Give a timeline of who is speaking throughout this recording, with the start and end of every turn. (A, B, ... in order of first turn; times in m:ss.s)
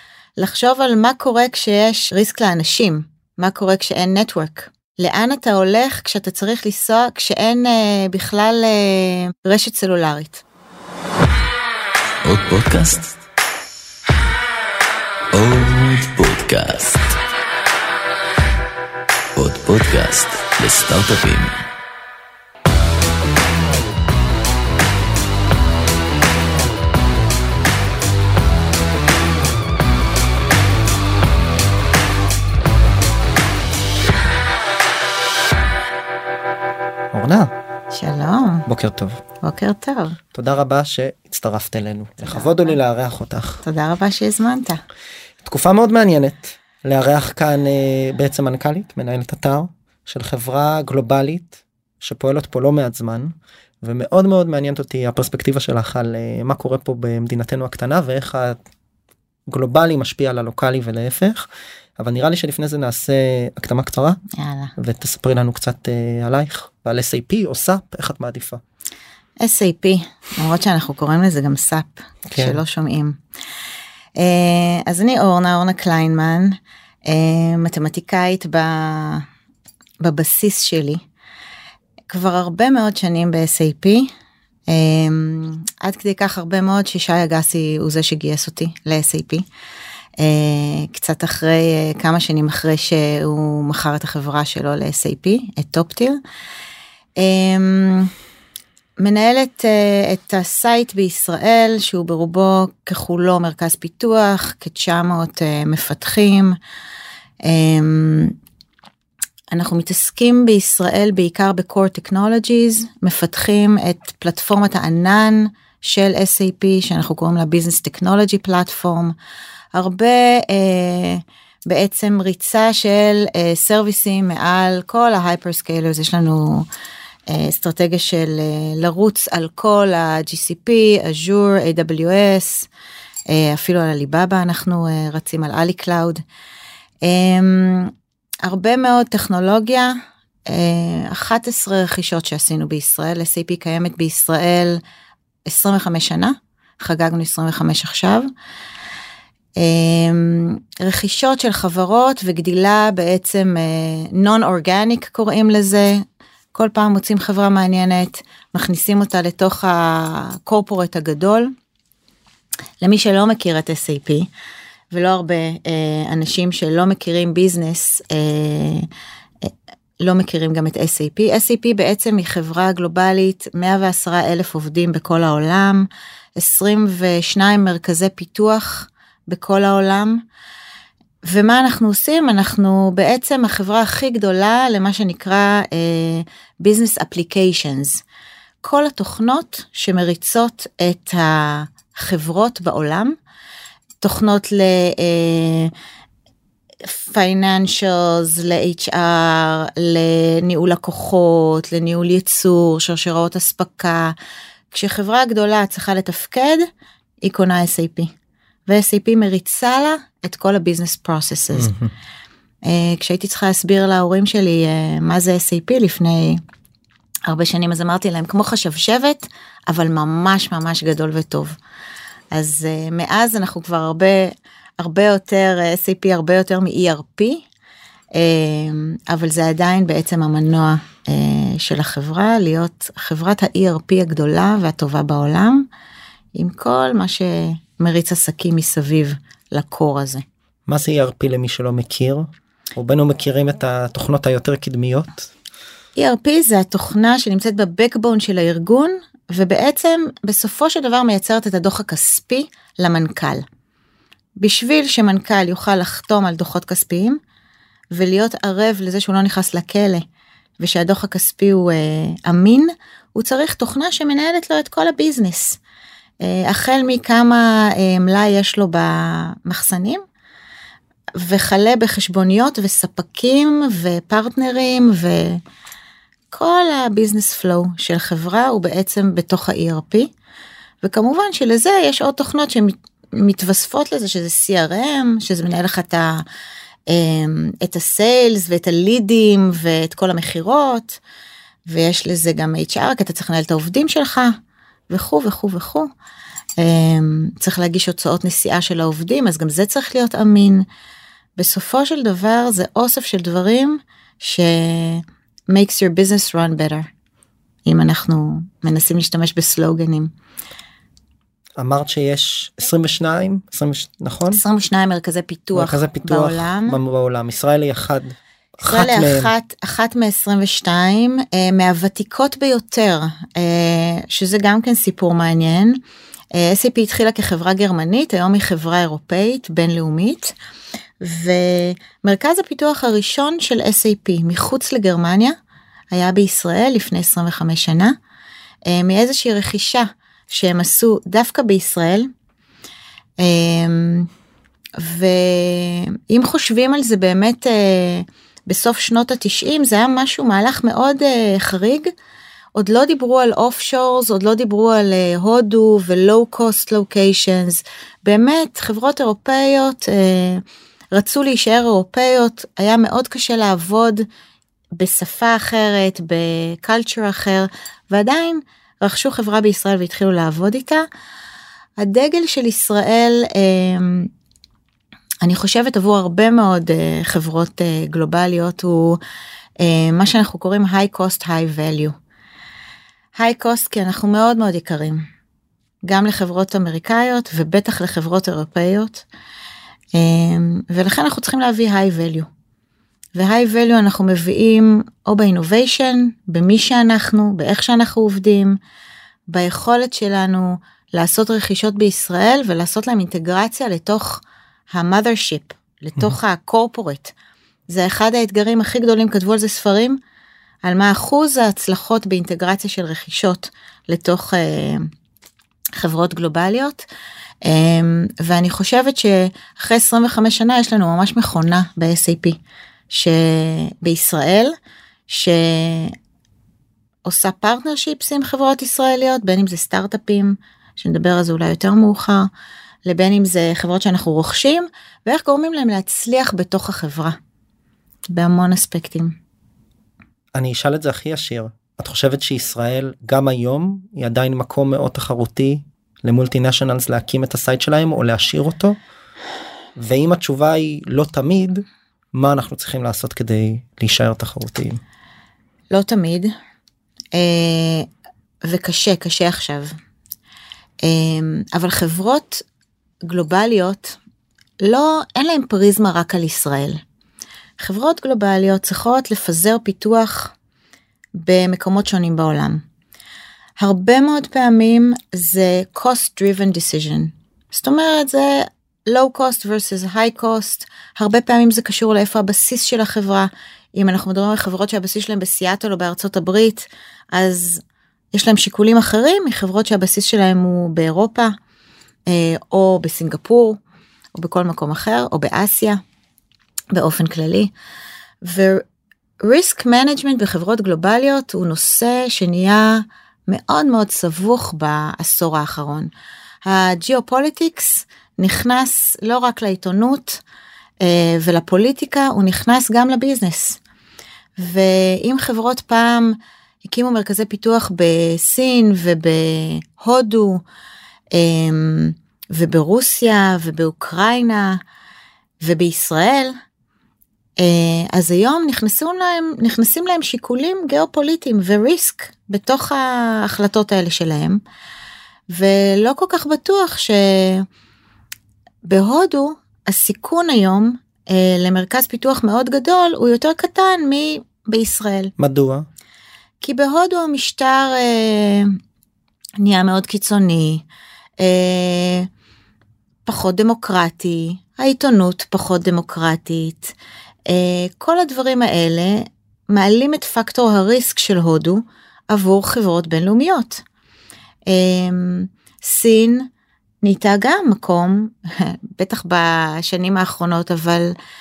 0:00.4-0:10.4 A
0:12.2-0:13.1 B
0:15.3-0:17.1 B
0:19.4-0:21.6 B
0:37.1-0:37.5 C
0:37.9-0:38.7 A
0:38.7-0:39.2 C
0:39.4-0:40.2 A
0:40.3-0:43.6 C
0:42.2-0:42.8 A
0:43.6-0:44.8 A
0:45.4-0:58.6 C
0:59.5-1:01.5 C
1:02.0-1:04.2 C
1:04.3-1:04.7 A
1:04.8-1:08.6 C
1:09.4-1:13.2 A
1:12.3-1:12.6 C
1:14.2-1:19.2 A
1:20.0-1:21.0 A
1:22.1-1:24.1 A
1:24.7-1:29.4 A
1:30.2-1:36.2 A
1:37.2-1:38.1 A
1:39.0-1:46.6 A
1:47.4-1:48.4 A
1:49.5-1:59.1 A
1:59.7-2:06.7 A
2:07.3-2:12.7 A
2:13.3-2:16.2 A
2:17.0-2:17.9 A
2:18.4-2:20.0 A
2:20.5-2:24.8 A
2:25.5-2:28.3 A
2:29.6-2:41.5 A
2:42.8-2:44.3 A
2:44.9-2:48.9 A
2:49.4-3:00.2 A
3:01.2-3:08.0 A
3:08.6-3:13.2 A
3:14.0-3:15.7 A
3:16.8-3:24.2 A
3:24.7-3:26.7 A
3:27.2-3:28.1 A
3:28.7-3:31.7 A
3:31.6-3:31.9 C
3:32.7-3:36.4 A
3:37.3-3:41.6 A
3:42.3-3:47.4 A
3:48.2-3:55.7 A
3:56.4-4:00.2 A
4:00.7-4:05.3 C
4:06.0-4:13.4 A
4:14.4-4:17.2 A
4:17.9-4:20.0 A
4:20.6-4:25.6 A
4:26.2-4:30.0 A
4:31.2-4:35.4 A
4:36.3-4:40.1 A
4:40.8-4:46.2 A
4:46.9-4:51.0 A
4:51.7-4:54.4 A
4:54.9-4:55.9 A
4:56.6-5:00.6 A
5:01.4-5:06.9 A
5:07.7-5:10.1 A
5:11.6-5:14.4 C
5:14.3-5:16.8 A
5:15.6-5:19.3 C
5:18.6-5:25.8 A
5:26.4-5:30.3 A
5:31.0-5:35.4 A
5:35.9-5:38.0 A
5:38.7-5:42.1 A
5:43.2-5:44.1 A
5:44.8-5:51.9 A
5:52.6-6:04.0 A
6:04.8-6:10.9 A
6:11.8-6:14.1 A
6:15.2-6:19.0 A
6:19.6-6:22.0 A
6:23.2-6:25.0 A
6:25.8-6:29.0 A
6:30.0-6:32.3 A
6:33.2-6:38.6 A
6:39.3-6:47.1 A
6:47.7-6:50.0 A
6:50.6-6:54.9 A
6:55.8-6:56.9 A
6:57.4-7:02.4 A
7:02.9-7:04.6 A
7:05.1-7:06.0 A
7:07.0-7:12.3 A
7:12.8-7:17.2 A
7:18.1-7:19.2 A
7:20.4-7:28.8 C
7:29.8-7:34.8 C
7:35.7-7:36.3 A
7:37.2-7:37.9 A
7:38.4-7:39.8 A
7:40.8-7:42.4 A
7:43.0-7:44.0 A
7:44.6-7:46.8 A
7:47.6-7:50.3 A
7:51.2-7:52.6 A
7:53.6-8:11.4 A
8:12.1-8:13.6 A
8:14.2-8:15.8 A
8:16.7-8:17.5 A
8:18.2-8:18.6 A
8:19.2-8:25.9 A
8:26.4-8:30.2 A
8:30.8-8:33.6 A
8:34.4-8:40.4 A
8:41.1-8:44.6 A
8:45.4-8:46.4 A
8:47.4-8:54.4 A
8:55.3-8:57.5 A
8:58.6-9:05.1 A
9:05.2-9:05.7 C
9:06.4-9:08.6 A
9:09.4-9:10.6 A
9:11.2-9:12.1 A
9:13.1-9:16.7 A
9:17.3-9:23.6 A
9:24.5-9:26.3 A
9:26.8-9:31.0 A